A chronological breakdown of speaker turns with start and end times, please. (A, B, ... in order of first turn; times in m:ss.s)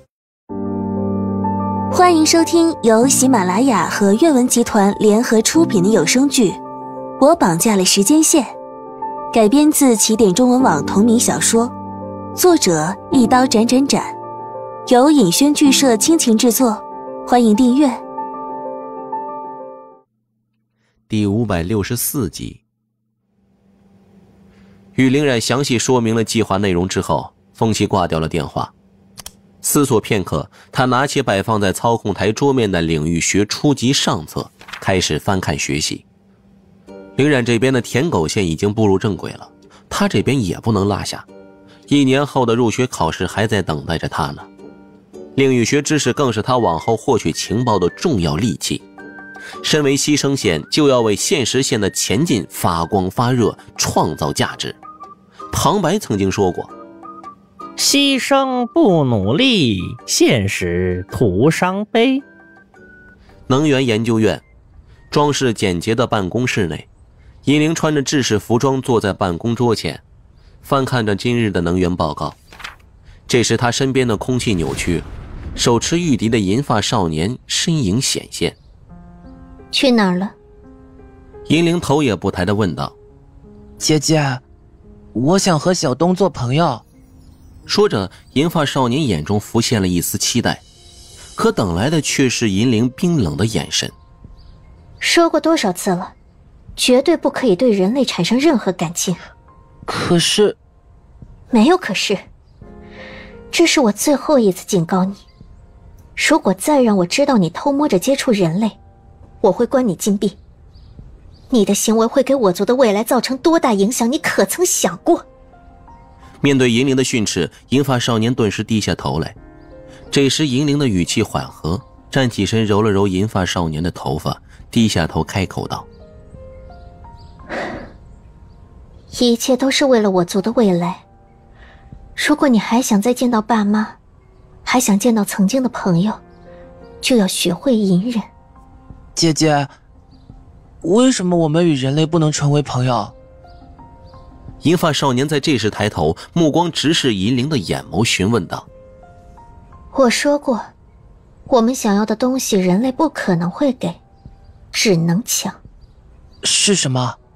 0:01.9-0:06.6 A
0:07.2-0:08.5 A
0:09.3-0:11.7 A
0:12.4-0:14.1 A
0:14.9-0:18.0 A
0:21.1-0:22.6 B
0:25.0-0:28.7 B
0:29.6-0:36.0 B
0:37.2-0:41.2 B
0:41.9-0:44.5 B
0:45.4-0:48.8 B
0:49.6-0:54.8 B
0:55.5-0:56.7 B
0:57.8-1:02.2 C
1:03.5-1:04.4 B
1:05.1-1:06.9 B
1:07.5-1:10.0 B
1:10.6-1:12.4 B
1:13.3-1:18.6 B
1:19.7-1:20.3 D
1:21.5-1:23.0 B
1:23.8-1:24.4 E
1:25.2-1:26.8 E
1:27.7-1:30.6 B
1:31.4-1:33.9 B
1:35.0-1:36.1 D
1:36.8-1:39.2 D
1:39.9-1:40.6 E
1:41.5-1:42.2 D
1:43.5-1:45.2 D
1:46.2-1:48.8 D
1:49.4-1:50.4 D
1:51.5-1:55.2 D
1:56.4-1:59.4 B
2:00.1-2:05.9 B
2:09.1-2:11.0 D
2:12.2-2:14.0 D
2:14.6-2:16.2 D
2:17.0-2:18.2 D
2:19.2-2:19.7 E
2:20.8-2:23.2 E
2:24.6-2:28.7 B
2:29.9-2:30.6 D
2:31.5-2:34.0 D
2:34.7-2:35.6 D
2:36.4-2:37.2 E